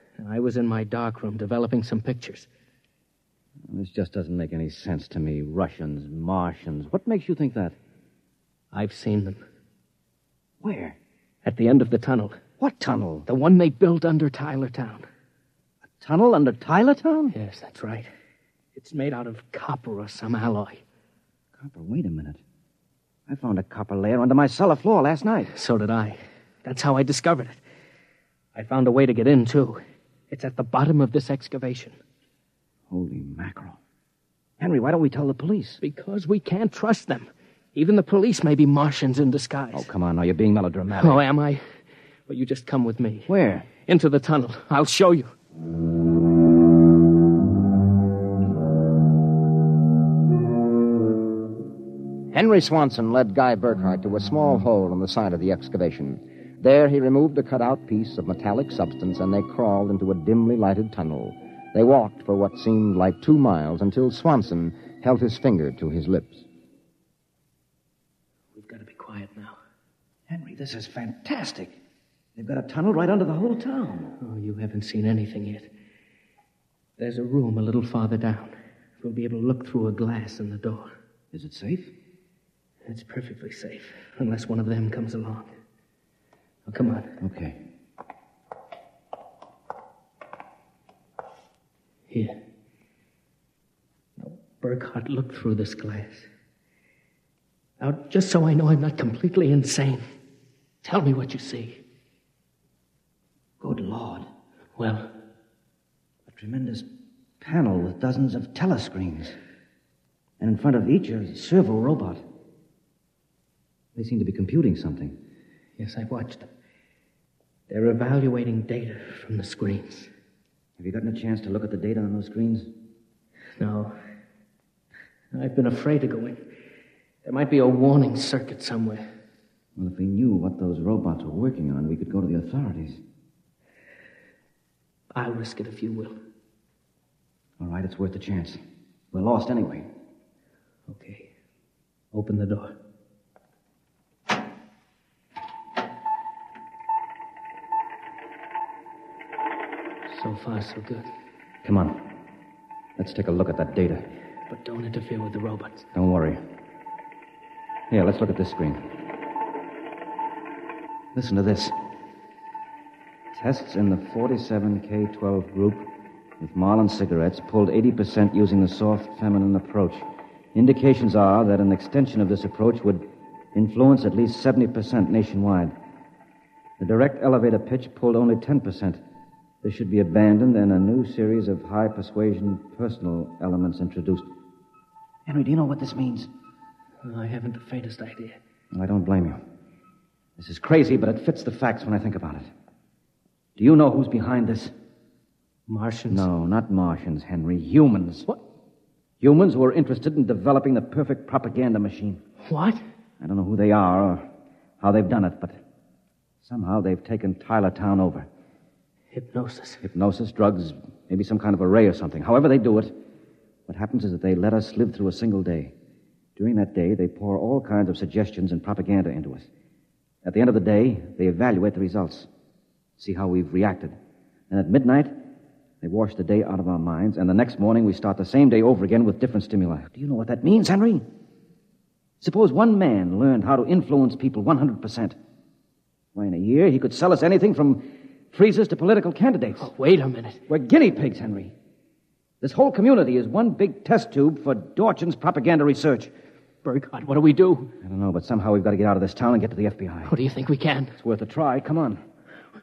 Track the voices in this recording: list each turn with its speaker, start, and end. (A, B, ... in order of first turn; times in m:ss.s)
0:00.2-0:02.5 A
0:03.7-0:07.8 B
0:08.7-0:09.4 A
0:10.6-0:11.0 B
0:11.4-0:12.4 A
0:12.6-0:13.2 B
0:13.2-0:15.0 A
0:16.0-0:17.3 B
0:17.3-0:18.1 A
0:18.7-0:20.8 A
0:21.6-0:22.4 B
0:23.3-0:25.5 B
0:25.5-0:27.6 A
0:28.5-0:32.0 A
0:32.9-0:33.8 B
0:34.6-0:35.8 B
0:35.8-0:39.9 A
0:39.7-0:41.2 B
0:41.0-0:41.7 A
0:42.3-0:43.3 A
0:43.3-0:43.7 B
0:43.8-0:45.3 A
0:52.3-1:06.4 C
1:08.5-1:09.6 A
1:10.3-1:11.8 B
1:12.4-1:14.1 B
1:14.2-1:15.7 A
1:17.0-1:20.9 A
1:21.3-1:21.9 B
1:22.8-1:25.5 A
1:26.7-1:27.2 A
1:27.2-1:27.6 B
1:32.1-1:32.4 A
1:34.2-1:36.3 A
1:37.8-1:40.0 A
1:40.8-1:41.8 A
1:43.6-1:44.3 B
1:44.8-1:45.1 A
1:46.3-1:46.9 B
1:47.4-1:49.4 B
1:50.4-1:52.2 B
1:53.9-1:55.2 B
1:55.8-1:56.5 A
1:57.7-2:00.1 A
2:00.8-2:02.7 B
2:03.6-2:04.0 A
2:05.3-2:06.4 A
2:07.2-2:09.0 A
2:09.8-2:13.0 B
2:15.1-2:16.2 A
2:17.6-2:18.6 B
2:19.1-2:19.9 B
2:20.9-2:21.3 A
2:22.1-2:22.8 A
2:30.1-2:31.1 A
2:31.6-2:32.1 B
2:33.0-2:34.0 B
2:34.5-2:35.9 A
2:35.9-2:36.4 B
2:37.9-2:38.8 B
2:41.1-2:41.7 B
2:43.3-2:55.7 B
2:56.8-2:59.0 B
2:59.6-3:04.3 B
3:05.2-3:06.3 B
3:07.0-3:08.4 A
3:08.7-3:09.4 B
3:10.4-3:12.5 B
3:13.6-3:14.7 B
3:15.7-3:16.3 A
3:16.1-3:18.3 B
3:19.2-3:22.2 B
3:22.4-3:22.8 A
3:23.2-3:24.3 B
3:24.8-3:25.6 B
3:26.4-3:28.3 B
3:29.1-3:29.8 A
3:29.8-3:33.0 B
3:33.7-3:35.7 B
3:36.4-3:39.5 B
3:40.2-3:42.3 B
3:43.0-3:44.0 B
3:44.5-3:45.2 B
3:45.8-3:51.1 B
3:52.2-3:55.2 B
3:56.1-3:59.7 B
3:59.6-4:00.4 A
4:00.5-4:01.5 B
4:02.4-4:06.1 B
4:06.6-4:07.7 A
4:07.8-4:10.1 B
4:10.0-4:11.0 A
4:11.0-4:12.0 B